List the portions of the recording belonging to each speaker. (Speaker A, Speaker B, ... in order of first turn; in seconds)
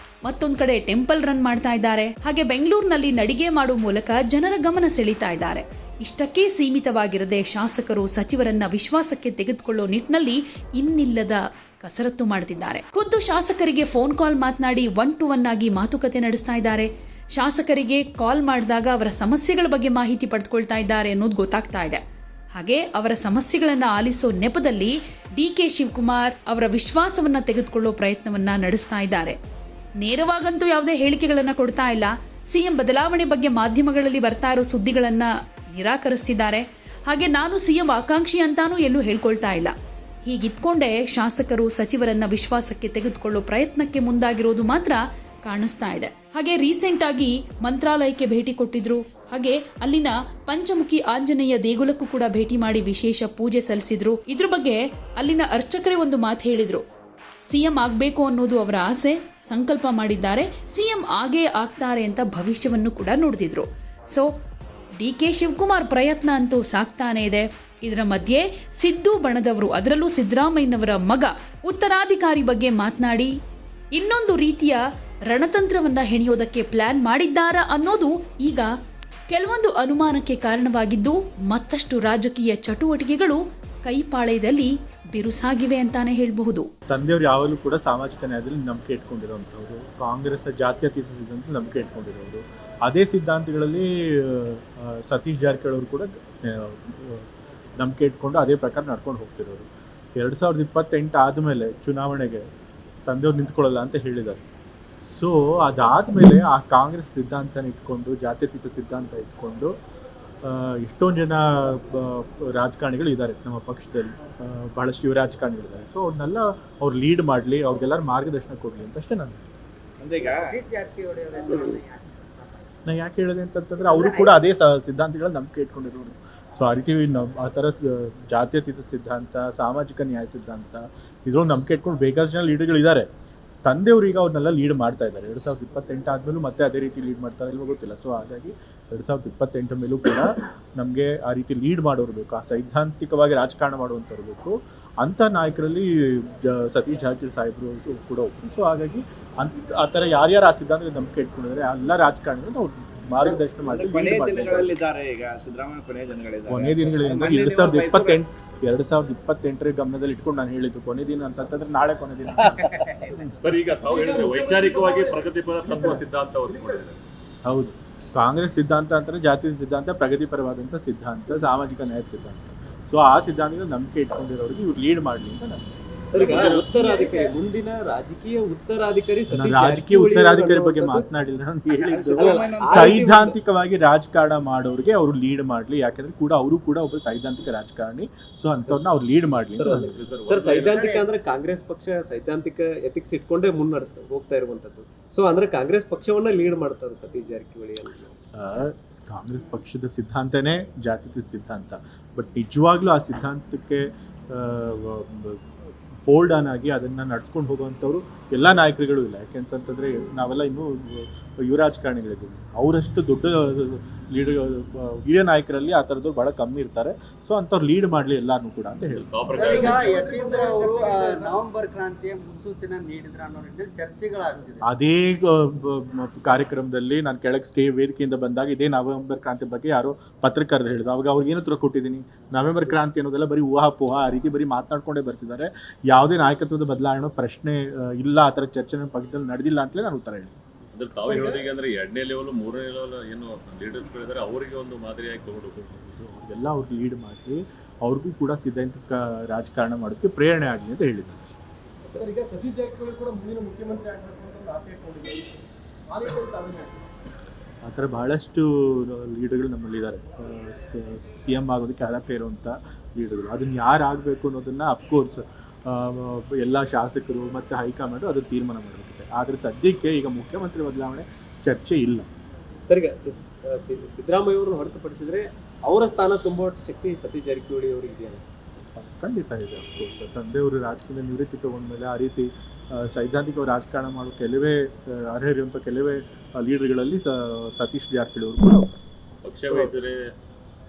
Speaker A: 0.3-22.0, 22.6-29.4, 30.0-39.7, 40.2-56.8, 57.5-64.3, 65.0-73.3, 74.0-74.8, 75.3-78.7, 79.3-86.7
Speaker B: 86.9-97.2, 97.8-102.4, 103.1-104.4, 105.1-109.7, 110.4-119.4, 122.9-133.1, 133.7-154.8, 156.5-162.7, 167.4-175.6, 179.3-190.0, 198.3-205.4, 206.1-219.0, 224.6-240.3, 245.6-251.4, 257.6-272.1, 278.7-288.7
Speaker C: 120.0-120.6, 153.7-158.2, 162.5-163.2, 181.7-182.8
Speaker D: 120.2-122.6, 123.9-124.4, 190.7-191.1, 219.3-224.6
Speaker E: 163.3-167.0, 176.2-177.3, 189.8-190.9, 218.9-220.0, 240.7-245.6, 289.2-290.0
Speaker F: 163.8-166.9, 219.3-221.4, 241.0-241.5, 251.9-255.3, 255.9-256.8
Speaker G: 176.1-181.1, 182.1-183.4, 189.5-198.1, 272.7-278.2